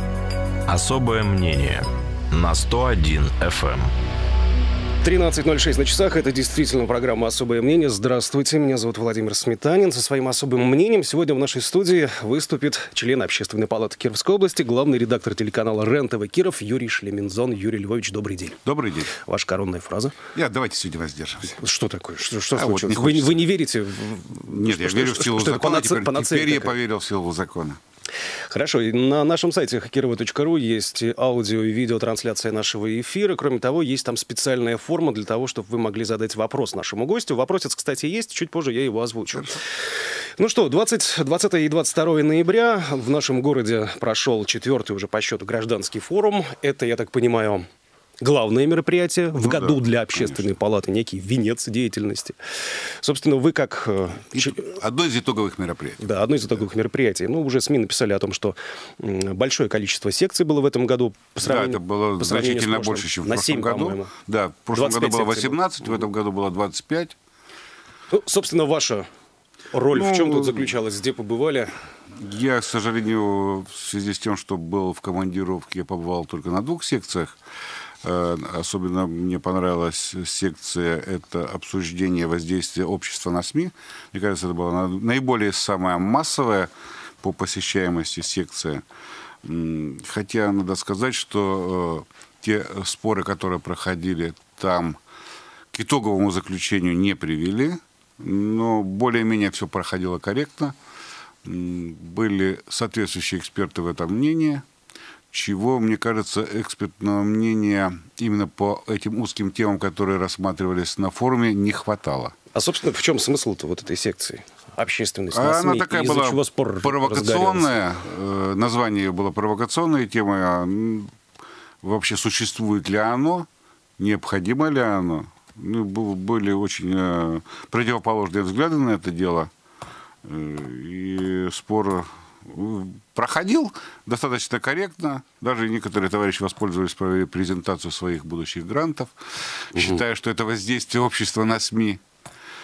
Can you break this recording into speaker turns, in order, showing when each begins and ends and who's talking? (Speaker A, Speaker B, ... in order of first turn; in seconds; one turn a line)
Speaker A: 0.7-3.9
Speaker B: 5.0-20.2
Speaker C: 18.6-19.1
Speaker C: 20.4-21.6
Speaker B: 21.6-26.7
Speaker C: 22.5-23.4
Speaker C: 24.4-27.8
Speaker B: 28.5-47.7
Speaker B: 48.2-54.7
Speaker C: 49.3-50.5
Speaker C: 54.3-56.2
Speaker B: 56.0-64.1
Speaker C: 61.4-67.2
Speaker B: 64.7-65.6
Speaker B: 68.1-69.1
Speaker B: 69.7-71.8
Speaker C: 69.9-70.7
Speaker C: 72.1-77.4
Speaker C: 78.0-88.8
Speaker C: 89.4-95.0
Speaker C: 95.7-100.8
Speaker C: 101.4-104.7
Speaker C: 105.3-112.3
Speaker B: 112.5-117.7
Speaker C: 115.3-121.1
Speaker C: 121.8-123.5
Speaker C: 124.0-129.5
Speaker C: 130.2-142.0